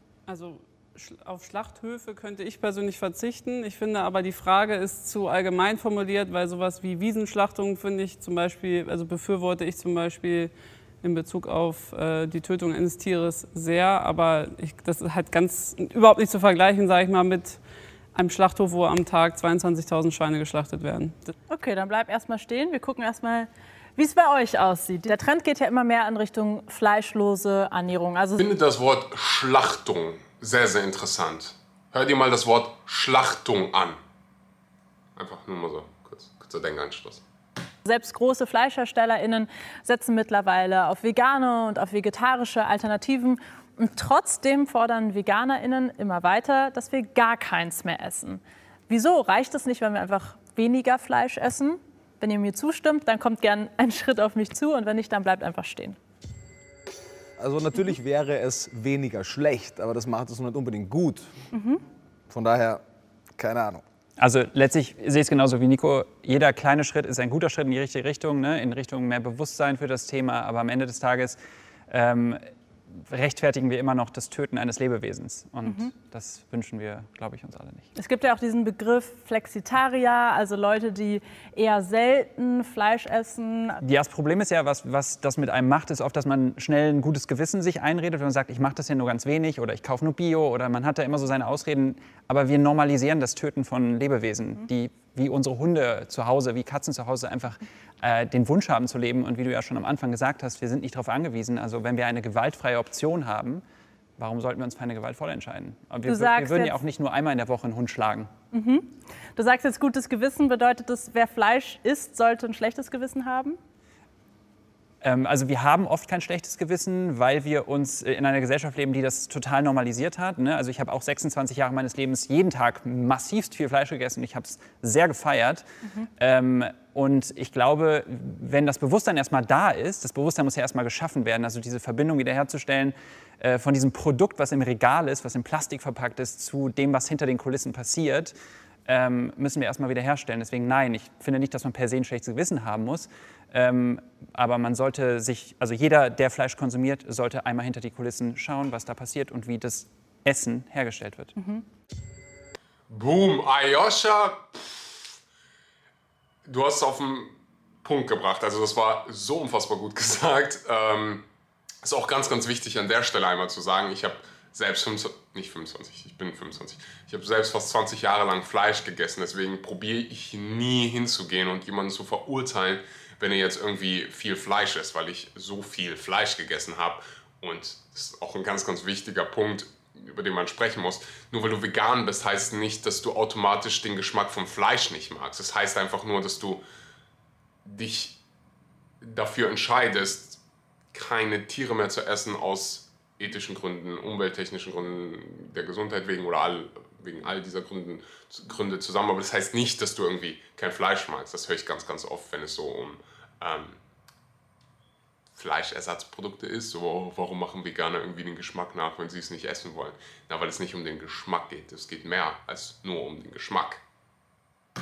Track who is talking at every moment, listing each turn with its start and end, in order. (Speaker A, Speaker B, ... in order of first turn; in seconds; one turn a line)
Speaker A: 0.3-17.6
Speaker A: 18.1-21.3
Speaker B: 21.5-28.5
Speaker C: 28.4-34.0
Speaker C: 35.1-37.2
Speaker B: 37.9-56.0
Speaker D: 57.4-61.3
Speaker D: 62.3-62.8
Speaker D: 63.4-63.8
Speaker E: 64.2-71.4
Speaker E: 71.9-72.4
Speaker E: 73.0-77.9
Speaker B: 75.6-75.9
Speaker B: 77.9-83.8
Speaker E: 83.8-103.6
Speaker E: 104.2-108.3
Speaker B: 106.0-106.8
Speaker B: 108.5-113.6
Speaker E: 115.0-125.6
Speaker E: 126.2-138.3
Speaker E: 138.8-151.3
Speaker C: 152.9-154.9
Speaker C: 156.4-161.2
Speaker C: 161.8-186.6
Speaker C: 187.6-188.2
Speaker C: 189.0-190.4
Speaker C: 190.9-203.8
Speaker C: 205.3-213.8